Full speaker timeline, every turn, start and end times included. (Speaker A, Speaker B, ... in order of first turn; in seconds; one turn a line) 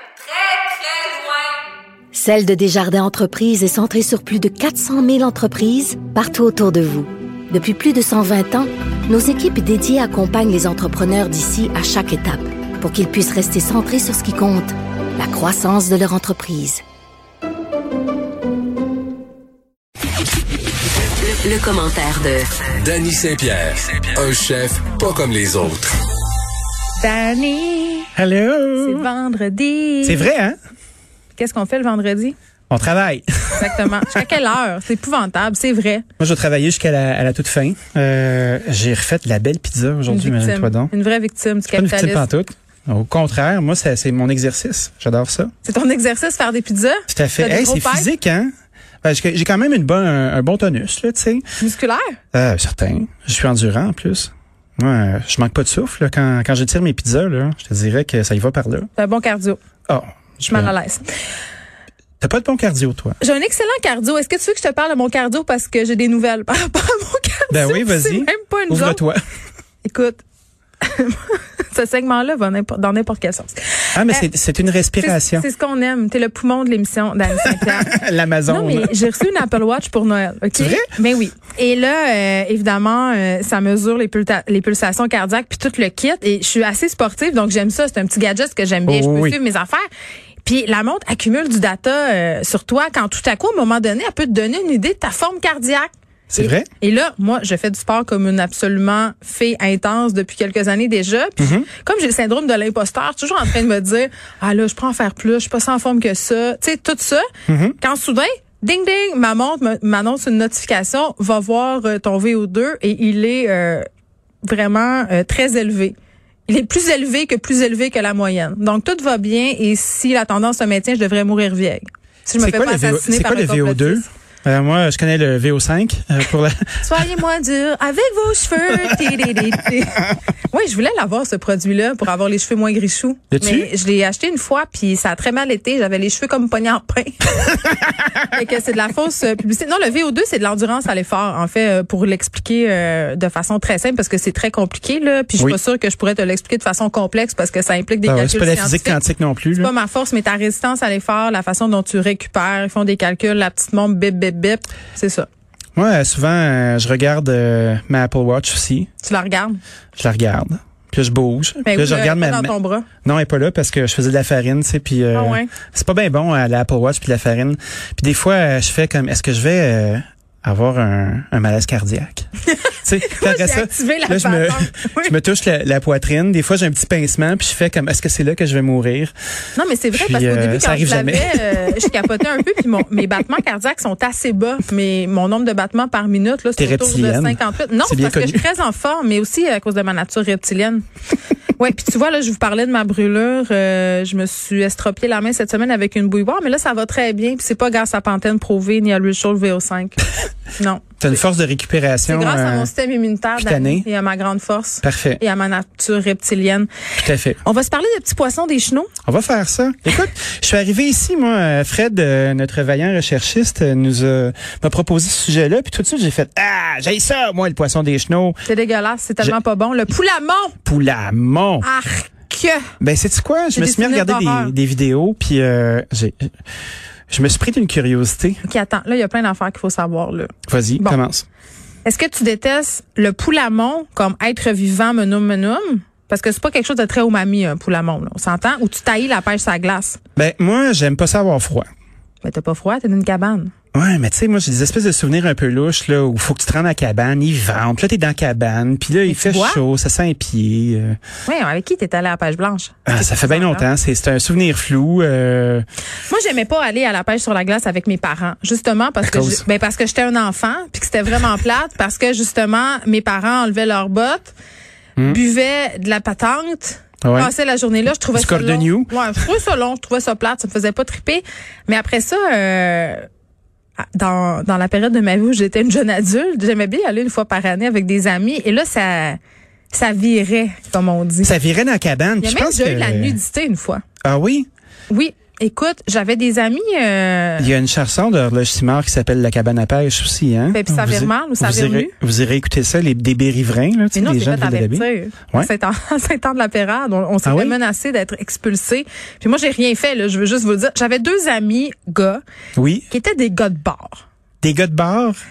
Speaker A: 2.1-16.8
Speaker A: 21.2-22.5
Speaker B: 22.7-26.0
Speaker C: 27.0-28.1
Speaker D: 28.2-29.1
Speaker C: 28.8-30.3
Speaker D: 30.0-30.6
Speaker C: 31.4-32.4
Speaker D: 32.7-34.2
Speaker C: 33.6-36.0
Speaker D: 36.2-40.9
Speaker C: 40.1-42.3
Speaker D: 41.7-45.5
Speaker C: 45.6-48.1
Speaker D: 47.1-48.5
Speaker D: 49.0-51.4
Speaker C: 51.6-52.2
Speaker D: 52.3-58.9
Speaker C: 59.0-59.6
Speaker D: 59.9-60.7
Speaker C: 60.4-61.0
Speaker D: 62.2-63.2
Speaker C: 63.2-69.0
Speaker D: 67.5-69.2
Speaker C: 69.8-70.2
Speaker C: 70.8-74.3
Speaker D: 73.9-75.5
Speaker C: 75.0-78.0
Speaker D: 77.4-78.9
Speaker C: 78.5-89.8
Speaker D: 80.5-80.9
Speaker D: 88.9-89.4
Speaker C: 90.4-113.9
Speaker D: 96.3-96.7
Speaker D: 101.4-101.7
Speaker D: 107.5-107.8
Speaker C: 114.4-115.9
Speaker C: 116.5-124.0
Speaker D: 122.4-126.8
Speaker C: 126.8-137.6
Speaker D: 133.3-133.7
Speaker C: 138.2-149.0
Speaker D: 148.1-149.7
Speaker C: 149.6-155.3
Speaker D: 155.8-158.9
Speaker C: 159.0-159.6
Speaker D: 160.0-172.3
Speaker C: 161.7-162.9
Speaker C: 165.1-165.5
Speaker C: 172.5-175.2
Speaker D: 172.8-179.1
Speaker C: 179.6-190.8
Speaker D: 179.9-182.0
Speaker D: 186.6-188.4
Speaker C: 191.6-201.2
Speaker D: 201.0-202.7
Speaker C: 202.1-206.7
Speaker D: 203.4-203.9
Speaker D: 204.8-205.2
Speaker D: 207.0-207.4
Speaker C: 207.4-208.9
Speaker D: 209.1-218.4
Speaker C: 218.5-220.6
Speaker D: 220.7-221.7
Speaker C: 221.6-222.7
Speaker D: 222.8-226.3
Speaker C: 223.5-224.5
Speaker D: 227.1-228.4
Speaker C: 228.4-231.0
Speaker D: 230.5-231.3
Speaker C: 231.8-240.0
Speaker D: 240.2-241.7
Speaker C: 242.2-243.5
Speaker D: 243.7-251.0
Speaker C: 249.1-249.6
Speaker C: 251.3-253.7
Speaker D: 252.9-255.7
Speaker C: 256.1-264.3
Speaker D: 259.0-259.4
Speaker C: 265.1-273.1
Speaker D: 267.0-267.3
Speaker D: 268.1-269.3
Speaker C: 273.8-279.2
Speaker C: 279.7-281.4
Speaker D: 281.2-283.2
Speaker C: 282.2-283.8
Speaker D: 284.0-284.5
Speaker C: 284.9-287.5
Speaker D: 287.4-295.5
Speaker C: 290.5-291.9
Speaker C: 293.9-302.2
Speaker D: 297.2-297.6
Speaker D: 302.6-302.9
Speaker C: 302.9-304.0
Speaker D: 304.4-305.2